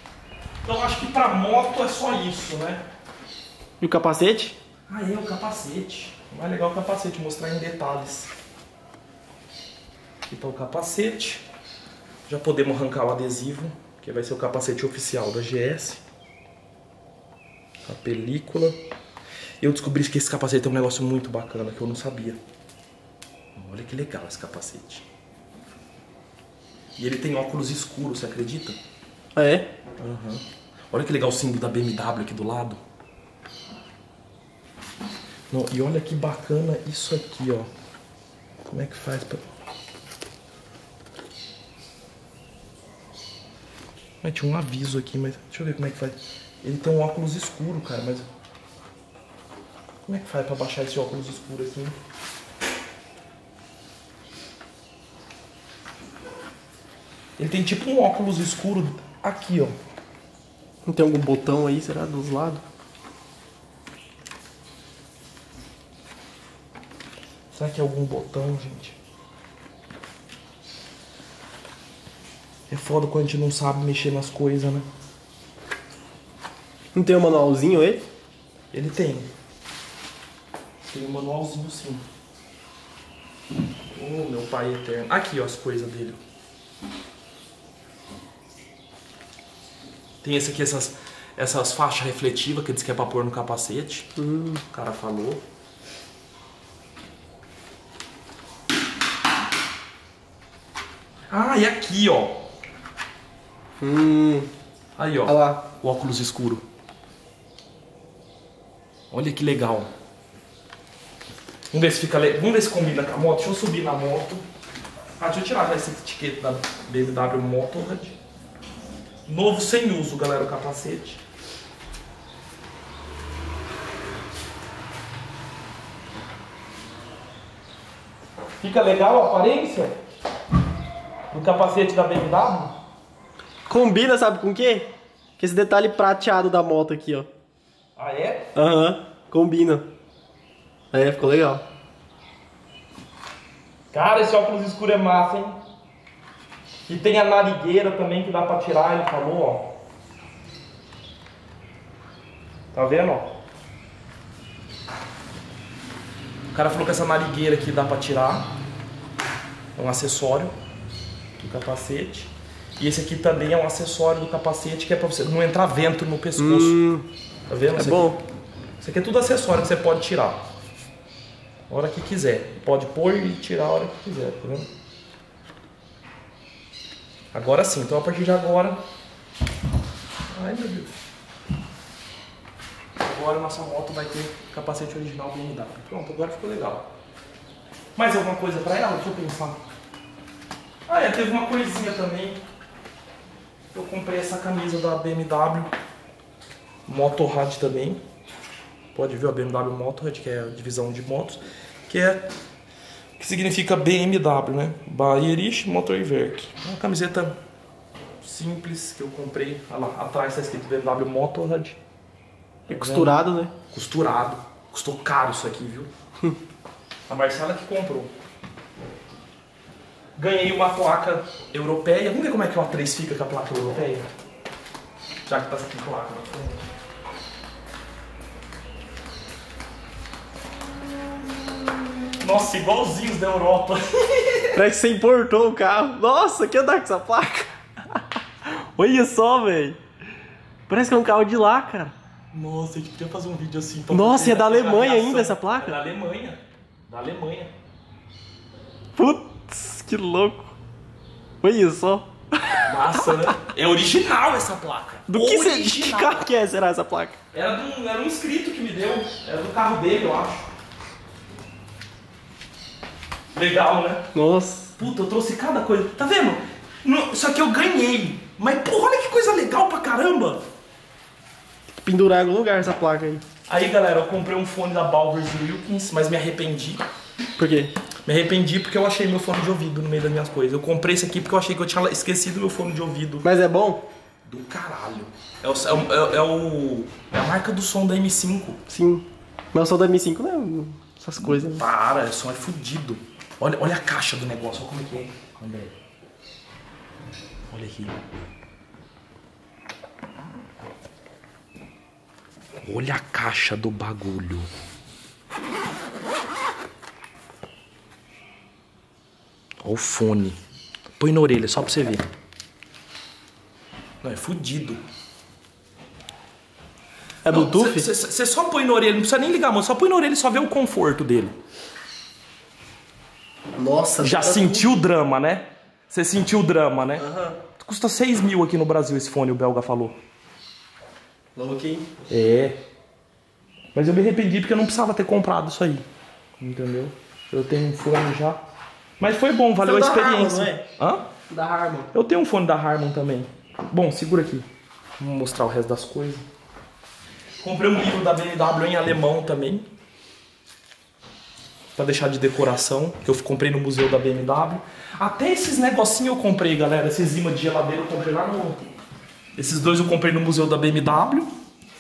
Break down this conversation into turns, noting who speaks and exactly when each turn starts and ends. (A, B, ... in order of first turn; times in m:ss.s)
0:00.6-0:02.8 A
0:03.8-0:04.6 B
0:04.9-0:08.3 A
0:10.3-0:11.4 A
0:12.3-0:16.0 A
0:17.8-0:18.8 A
0:19.6-0:22.4 A
0:23.6-0:25.0 A
0:27.0-0:28.8 A
0:29.3-0:29.7 B
0:30.0-0:32.8 A
0:35.5-0:37.7 A
0:38.7-0:39.4 A
0:44.2-0:48.3 A
0:50.1-0:52.0 A
0:57.4-0:59.7 A
1:00.8-1:02.6 B
1:07.5-1:09.0 A
1:12.7-1:14.9 A
1:16.9-1:18.0 B
1:18.7-1:19.3 A
1:20.8-1:22.0 A
1:23.9-1:26.2 A
1:30.2-1:34.1 A
1:34.2-1:34.6 B
1:34.7-1:35.4 A
1:41.3-1:42.4 A
1:43.8-1:44.5 B
1:45.0-1:46.6 A
1:45.2-1:45.6 B
1:49.1-1:49.9 A
1:51.7-1:54.4 A
1:55.2-1:58.2 A
1:59.3-2:01.2 A
2:08.6-2:09.9 A
2:11.3-2:12.7 A
2:13.7-2:17.3 B
2:18.0-2:18.5 A
2:18.5-2:19.8 B
2:20.9-2:21.6 B
2:23.9-2:25.6 A
2:26.9-2:29.8 A
2:32.7-2:33.3 A
2:36.5-2:38.5 A
2:39.8-2:40.5 A
2:41.4-2:46.8 A
2:46.4-2:47.0 B
2:47.5-2:48.2 A
2:47.7-2:48.2 B
2:48.8-2:50.4 A
2:51.7-2:54.7 A
2:57.3-2:58.8 A
3:00.3-3:00.9 A
3:03.0-3:06.9 A
3:08.0-3:09.6 A
3:10.9-3:12.4 A
3:13.7-3:15.7 A
3:16.8-3:18.0 A
3:18.9-3:22.3 A
3:23.2-3:27.4 A
3:28.2-3:31.8 A
3:32.7-3:33.5 B
3:32.7-3:35.9 A
3:37.1-3:38.1 A
3:40.2-3:44.1 A
3:45.2-3:46.7 A
3:52.2-3:54.6 A
3:54.5-3:59.8 B
4:00.7-4:01.9 B
4:02.3-4:07.5 A
4:03.9-4:05.8 B
4:09.0-4:10.5 B
4:11.4-4:13.4 B
4:12.6-4:16.3 A
4:15.1-4:17.2 B
4:17.3-4:20.5 A
4:23.3-4:24.1 A
4:24.1-4:24.8 B
4:24.8-4:30.4 A
4:31.8-4:33.2 B
4:33.5-4:36.8 A
4:37.4-4:37.7 B
4:38.0-4:43.3 A
4:43.2-4:43.8 B
4:44.2-4:48.6 A
4:48.7-4:51.6 B
4:51.2-4:55.7 A
4:57.5-4:58.0 A
5:02.6-5:04.5 A
5:09.6-5:10.4 A
5:11.0-5:12.0 A
5:14.0-5:14.8 A
5:17.2-5:17.8 B
5:17.3-5:21.3 A
5:23.6-5:24.7 B
5:24.0-5:30.0 A
5:27.0-5:27.4 B
5:31.4-5:31.9 B
5:32.1-5:32.6 A
5:33.7-5:35.8 A
5:36.4-5:38.4 A
5:39.0-5:41.0 A
5:39.6-5:40.6 B
5:41.3-5:41.9 B
5:41.9-5:44.5 A
5:45.0-5:46.2 A
5:47.4-5:49.7 A
5:51.8-5:58.6 A
5:59.4-6:01.3 A